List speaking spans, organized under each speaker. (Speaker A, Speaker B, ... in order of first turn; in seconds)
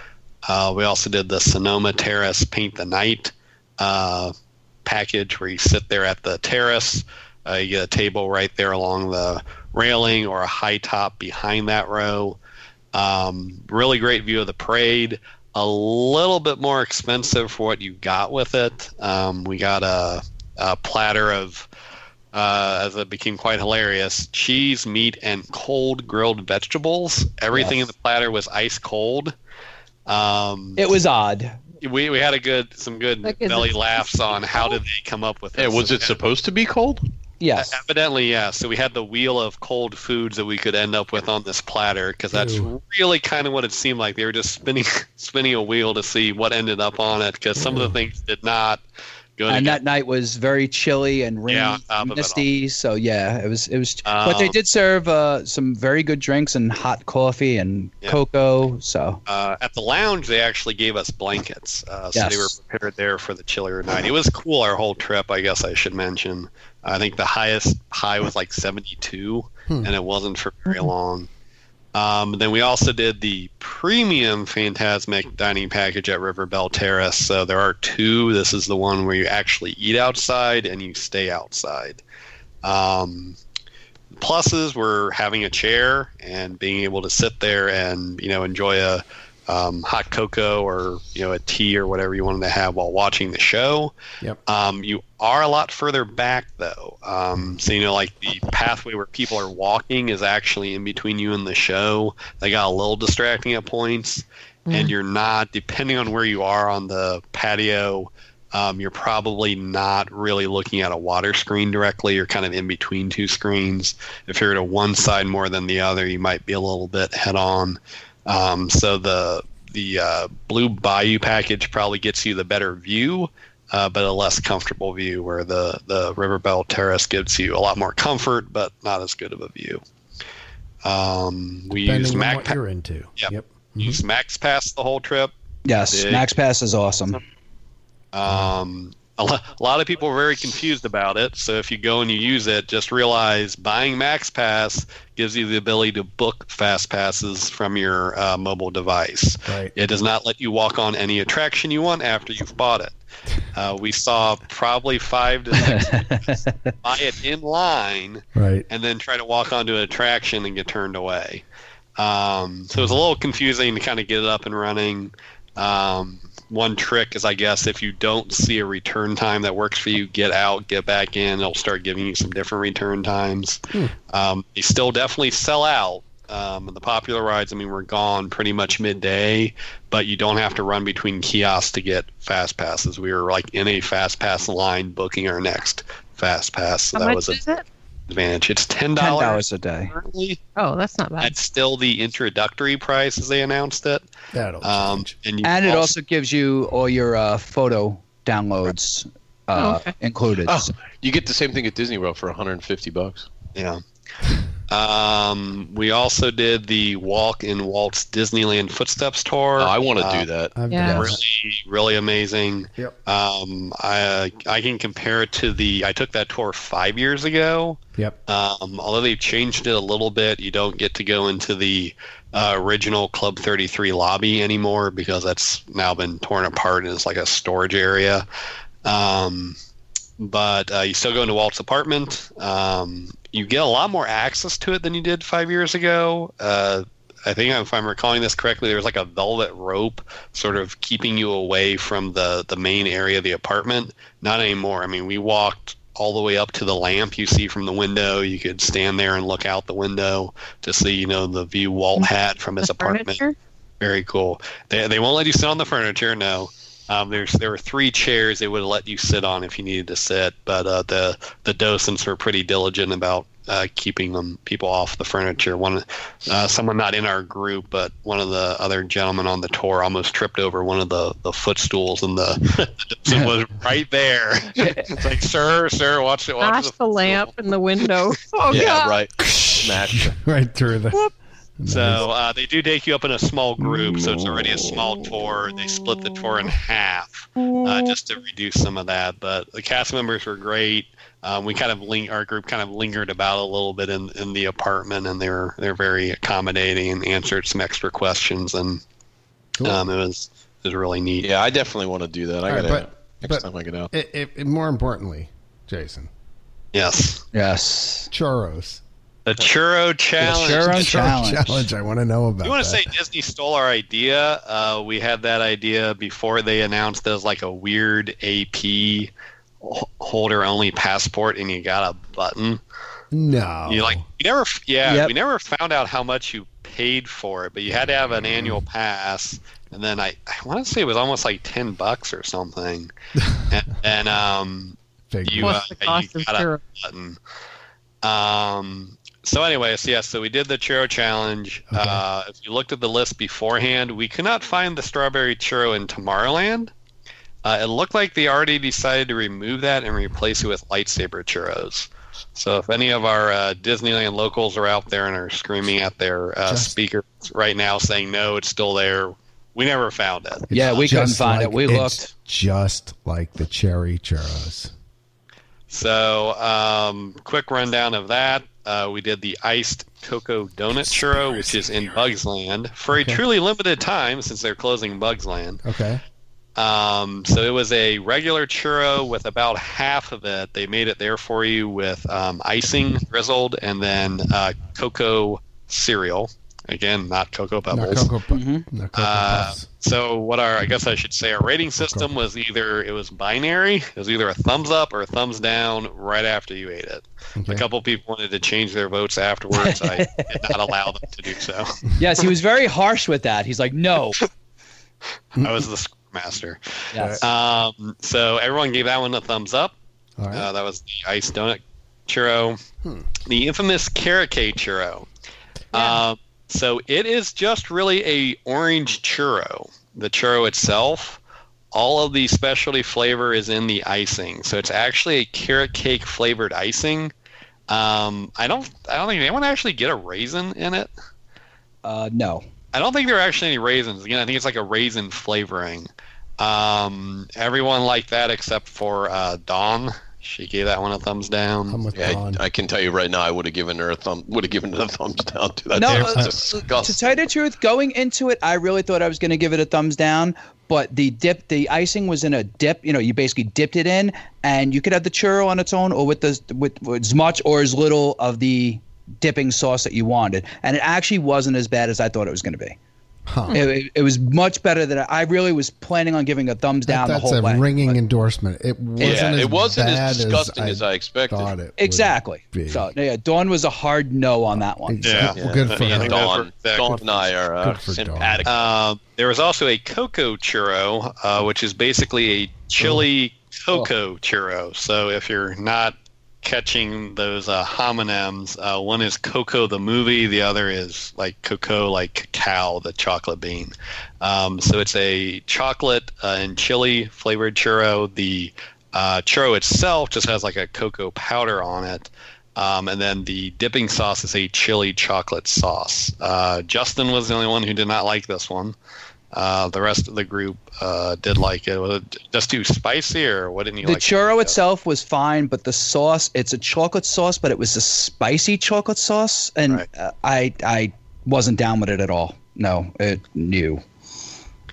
Speaker A: 0.5-4.3, 4.8-12.4, 12.9-21.7, 22.3-29.4, 30.1-30.8, 31.8-36.2, 37.6-48.8, 49.4-49.8, 51.5-52.5, 54.0-54.6, 59.3-71.3, 71.9-82.0, 82.6-83.4, 84.2-93.9, 94.5-129.8, 130.8-132.6, 133.2-136.3, 138.1-153.0, 153.5-156.0, 156.8-161.4, 162.0-187.4, 188.1-190.4, 191.2-194.1, 194.6-195.9, 203.6-203.8, 204.7-210.3, 210.9-228.2, 228.8-229.6, 230.2-253.2, 253.8-277.3, 281.7-298.8, 299.6-301.3, 306.7-307.2, 309.3-311.2, 312.4-322.6, 323.7-332.9, 333.5-337.2, 338.0-346.7, 347.4-360.8, 365.7-375.6, 376.6-388.1, 388.9-402.2, 405.3-406.6, 407.2-409.8, 410.3-412.6, 413.2-415.1, 415.7-421.2, 421.7-427.1, 427.7-430.9, 432.7-441.8, 445.8-446.3, 475.0-477.2, 478.4-508.8, 509.3-514.6
Speaker B: 27.5-27.8, 30.8-31.6, 37.4-37.8, 49.5-59.2, 62.1-62.5, 135.7-137.2, 155.7-156.7, 189.0-189.9, 195.4-200.7, 274.6-274.9, 307.3-308.1, 310.2-311.7, 324.9-325.1, 360.5-362.1, 388.3-388.7, 399.5-400.7, 402.0-404.2, 406.9-407.2, 431.8-432.4, 445.8-462.8, 463.5-468.0, 471.8-475.0, 513.8-523.8
Speaker C: 33.2-34.1, 104.7-104.9, 186.9-187.7, 190.6-191.3, 199.6-199.9, 210.7-211.1, 252.0-253.3, 276.4-279.0, 335.4-336.6
Speaker D: 35.6-37.0, 200.4-203.3, 209.6-210.5, 278.5-280.1, 301.2-303.9, 441.9-447.2, 469.0-471.5, 475.4-478.6
Speaker E: 42.3-42.7, 47.6-48.0, 131.8-134.0, 149.5-149.7, 158.3-158.7, 194.3-195.1, 210.6-211.2, 279.2-281.0, 281.6-282.1, 283.6-284.6, 299.6-299.9, 302.5-306.1, 308.1-308.8, 310.7-312.9, 323.1-324.1, 335.1-335.6, 341.7-342.0, 356.5-356.7, 360.5-364.7, 372.9-373.2, 375.6-376.0, 387.7-389.7, 391.8-392.1, 397.4-397.6, 406.9-407.2, 410.2-410.5, 412.8-413.1, 441.7-442.4, 463.3-463.6, 466.9-472.9, 474.9-476.3, 477.6-478.5